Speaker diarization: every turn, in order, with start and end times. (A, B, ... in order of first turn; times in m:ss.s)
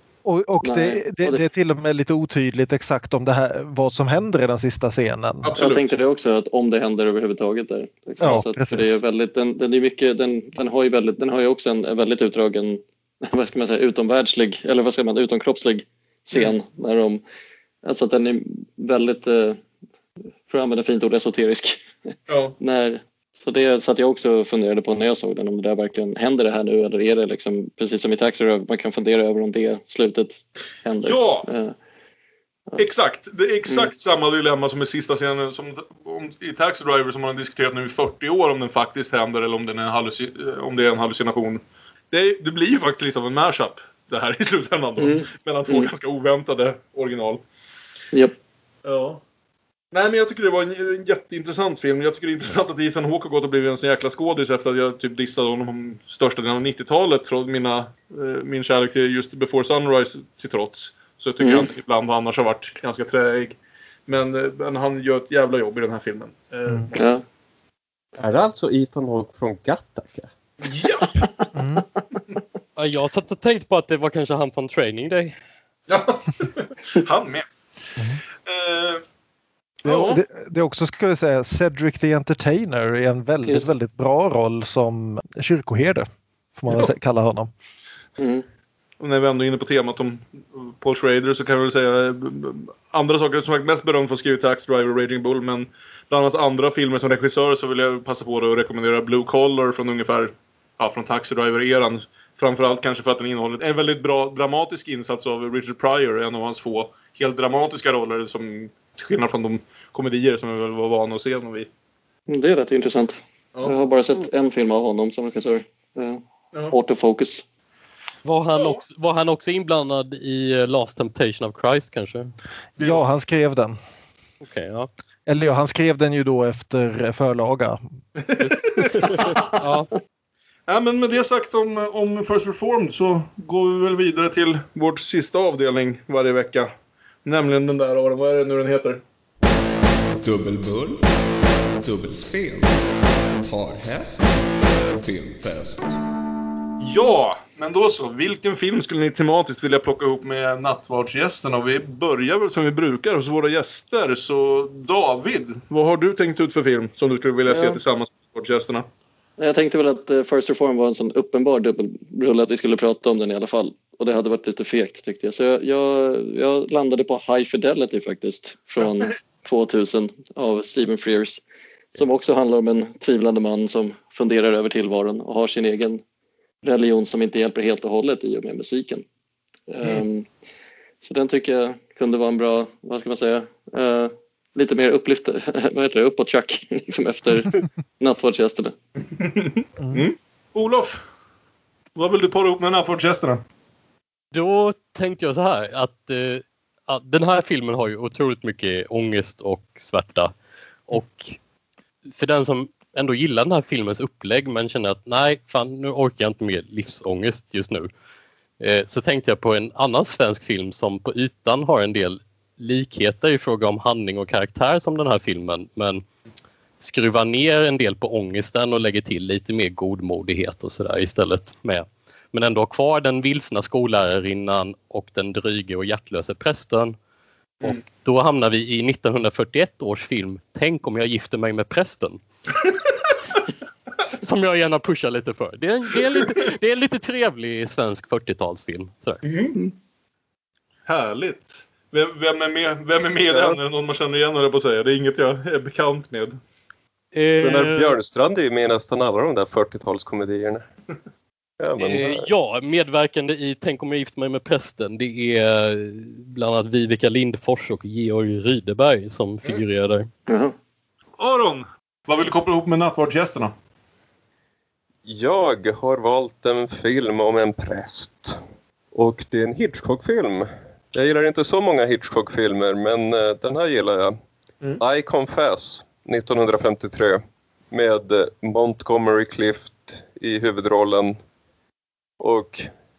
0:00.2-0:05.6 A
0:00.6-0:01.4 B
0:05.4-0:06.0 C
0:05.6-0:17.2 B
0:08.2-0:09.0 A
0:17.8-0:19.6 B
0:20.5-0:21.8 B
0:22.3-0:22.6 C
0:22.6-0:31.7 B
0:31.0-0:31.4 C
0:32.8-0:41.6 C
0:42.1-0:47.4 C
0:45.0-0:45.9 B
0:48.8-0:49.2 C
0:49.9-1:07.0 C
1:01.4-1:01.7 B
1:06.9-1:07.2 B
1:08.2-1:10.3 D
1:10.6-1:11.3 C
1:11.5-1:11.8 A
1:12.8-1:15.4 E
1:15.9-1:17.4 C
1:18.0-1:18.2 A
1:18.4-1:19.0 C
1:19.8-1:20.2 C
1:20.0-1:27.5 A
1:28.2-1:28.4 B
1:29.0-1:51.7 C
1:52.3-1:57.4 B
1:58.2-2:02.3 E
2:02.8-2:03.8 A
2:04.4-2:04.9 E
2:05.2-2:07.8 A
2:08.2-2:09.4 C
2:08.4-2:09.9 E
2:10.7-2:16.7 C
2:17.2-2:19.0 C
2:20.2-2:21.0 F
2:21.8-2:22.8 F
2:23.4-2:24.3 F
2:24.8-2:26.0 F
2:26.8-2:38.8 C
2:37.5-2:37.8 B
2:39.4-2:51.4 B
2:52.0-2:56.0 B
2:56.6-2:59.0 B
2:59.7-3:00.3 B
3:01.0-3:08.7 B
3:09.2-3:11.0 C
3:09.8-3:10.1 A
3:12.0-3:13.4 C
3:14.3-3:20.3 E
3:20.9-3:21.4 E
3:22.1-3:27.9 E
3:28.6-3:36.0 E
3:36.8-3:47.0 E
3:47.6-3:52.2 E
3:54.2-3:59.2 E
3:59.2-3:59.5 C
4:00.8-4:06.4 C
4:03.3-4:03.6 D
4:07.1-4:08.0 E
4:07.4-4:10.6 D
4:11.6-4:12.3 D
4:11.8-4:20.1 E
4:20.3-4:20.5 B
4:21.2-4:23.5 C
4:25.0-4:28.4 D
4:28.9-4:34.1 D
4:34.8-4:41.2 D
4:42.2-4:42.7 D